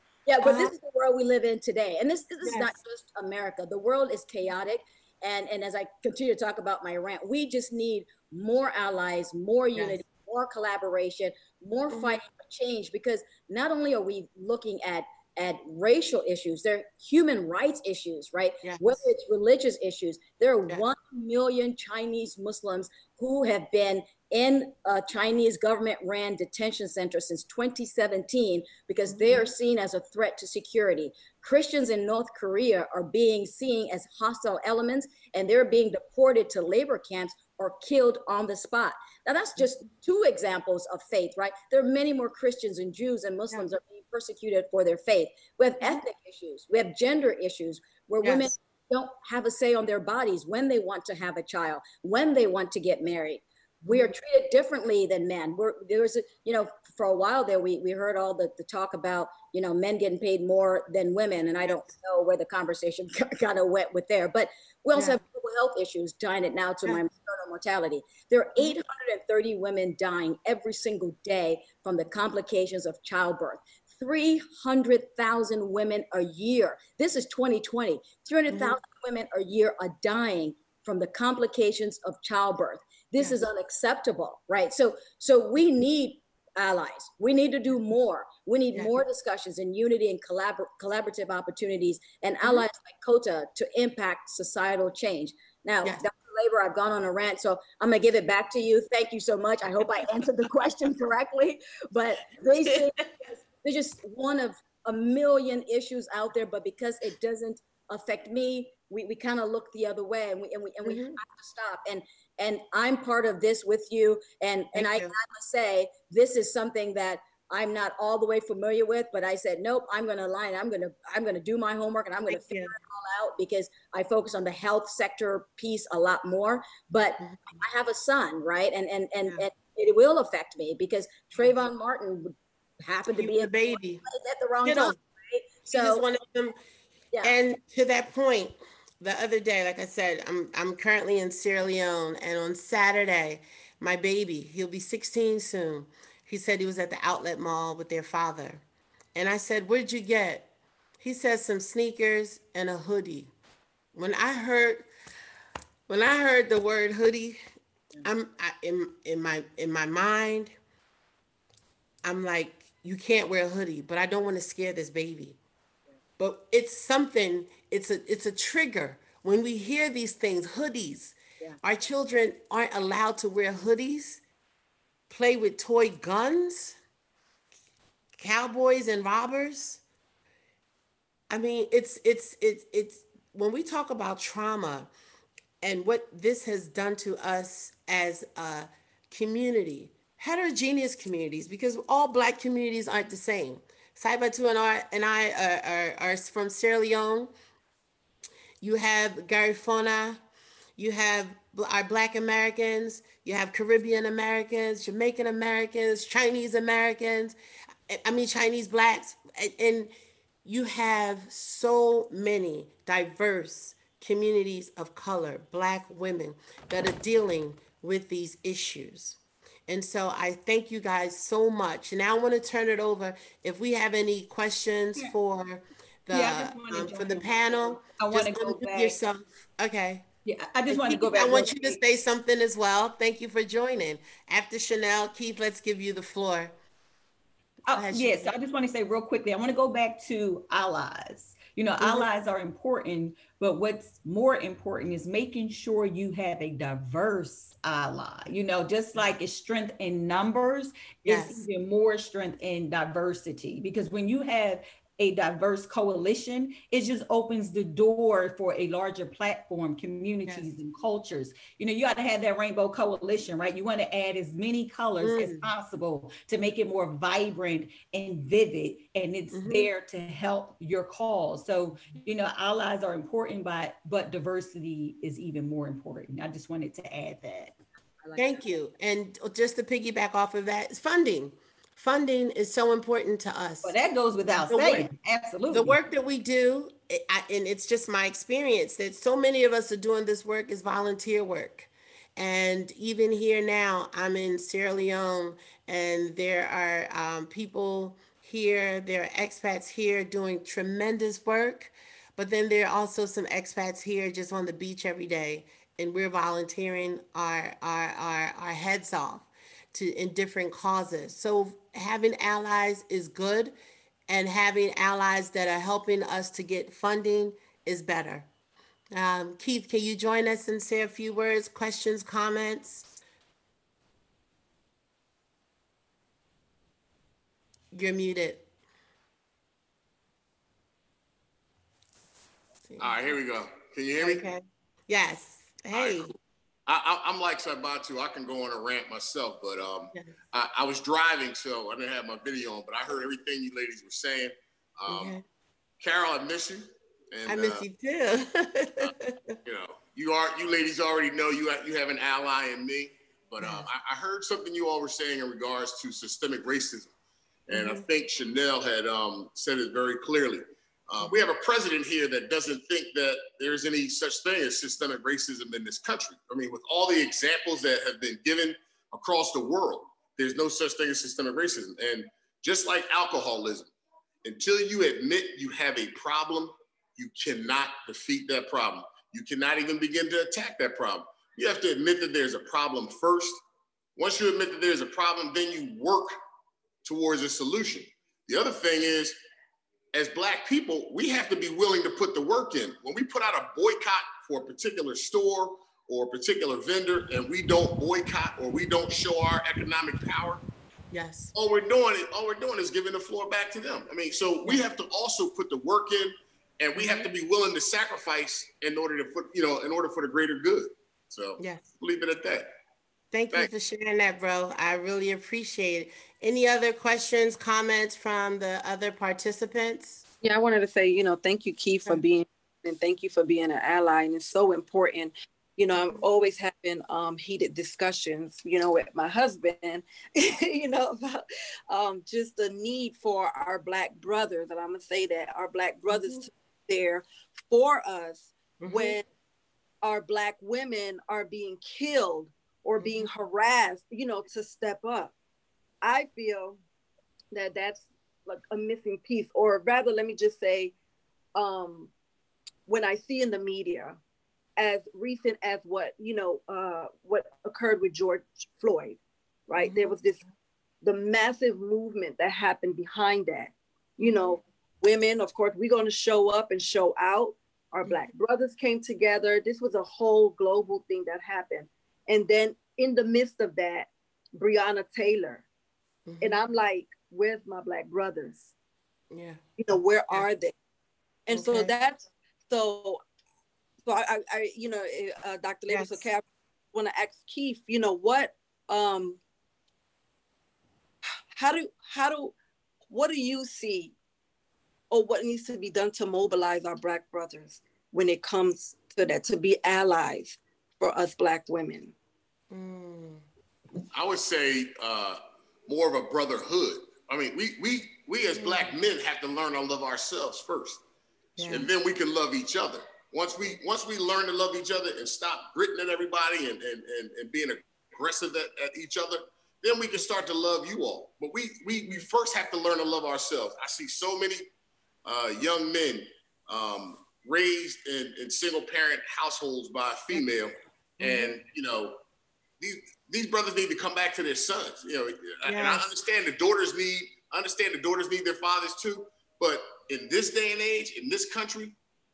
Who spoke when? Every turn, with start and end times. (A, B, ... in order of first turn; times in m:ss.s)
0:00.3-2:16.0 A
0:00.4-0:00.7 B
0:02.4-0:02.8 B
0:09.8-0:10.0 B
0:11.9-0:12.2 B
0:18.6-0:19.0 B
0:29.1-0:29.5 B
0:48.2-0:48.5 B
0:53.9-0:54.1 B
1:05.0-1:05.2 B
1:18.5-1:18.8 B
1:42.6-1:43.0 B
1:50.8-1:51.2 B
1:54.8-1:55.1 B
2:02.3-2:02.8 B
2:07.2-2:07.6 B
2:13.1-2:14.0 B
2:14.6-2:15.0 B
2:15.7-2:16.6 B
2:17.2-2:28.6 B
2:29.2-2:30.5 B
2:31.0-2:33.3 B
2:33.9-2:34.9 B
2:35.9-2:37.4 B
2:38.0-2:40.6 B
2:42.0-2:45.4 B
2:46.2-2:54.2 B
2:55.1-2:56.8 B
2:58.2-2:59.8 B
3:01.3-3:04.9 B
3:05.6-3:17.3 B
3:18.6-3:20.2 B
3:20.8-3:27.4 B
3:27.9-3:29.9 B
3:30.4-3:50.1 B
3:46.1-3:49.0 C
3:50.3-3:51.8 C
3:50.7-3:56.5 B
3:57.7-4:37.6 C
3:57.7-3:58.3 B
4:01.8-4:02.1 B
4:11.1-4:11.4 B
4:25.0-4:25.5 B
4:29.3-4:29.7 B
4:38.2-4:43.8 B
4:43.6-4:45.8 C
4:44.5-4:44.9 B
4:45.5-5:13.5 B
5:14.1-5:18.3 B
5:18.9-5:23.0 B
5:27.7-5:28.5 B
5:32.7-5:33.0 B
5:32.8-5:34.3 D
5:34.0-5:36.1 B
5:35.7-5:36.1 D
5:36.7-5:45.2 D
5:44.9-5:45.2 B
5:45.8-5:47.6 D
5:47.3-5:49.4 B
5:49.4-5:57.0 D
5:53.4-5:53.7 B
5:57.5-6:13.7 D
5:57.5-5:57.8 B
6:01.0-6:01.3 B
6:14.2-6:23.4 D
6:24.0-6:26.1 D
6:26.8-6:29.2 D
6:29.9-6:40.4 D
6:40.9-6:41.3 B
6:41.4-6:52.5 D
6:46.8-6:47.1 B
6:51.4-6:51.7 B
6:53.1-7:00.0 B
7:00.2-7:19.0 E
7:15.9-7:16.2 B
7:18.6-7:19.0 B
7:19.8-7:25.1 E
7:22.8-7:23.1 B
7:25.8-7:26.6 E
7:27.3-7:30.7 E
7:31.4-7:31.9 E
7:32.7-7:34.0 E
7:34.6-7:40.2 E
7:39.6-7:40.0 B
7:40.8-7:55.5 E
7:44.0-7:44.4 B
7:47.9-7:48.1 B
7:56.1-7:56.5 B
7:56.2-7:58.5 E
7:59.1-7:59.4 B
7:59.6-8:00.5 E
8:01.3-8:03.0 E
8:01.3-8:01.7 B
8:03.9-8:09.2 E
8:05.7-8:06.0 B
8:11.3-8:12.3 E
8:12.9-8:13.9 E
8:14.9-8:21.9 E
8:22.5-8:23.2 B
8:23.9-8:30.8 D
8:28.4-8:28.7 B
8:31.4-8:31.7 B
8:31.4-8:44.5 D
8:45.0-8:52.0 D
8:51.0-8:51.4 B
8:52.6-9:01.8 D
8:55.5-8:55.9 B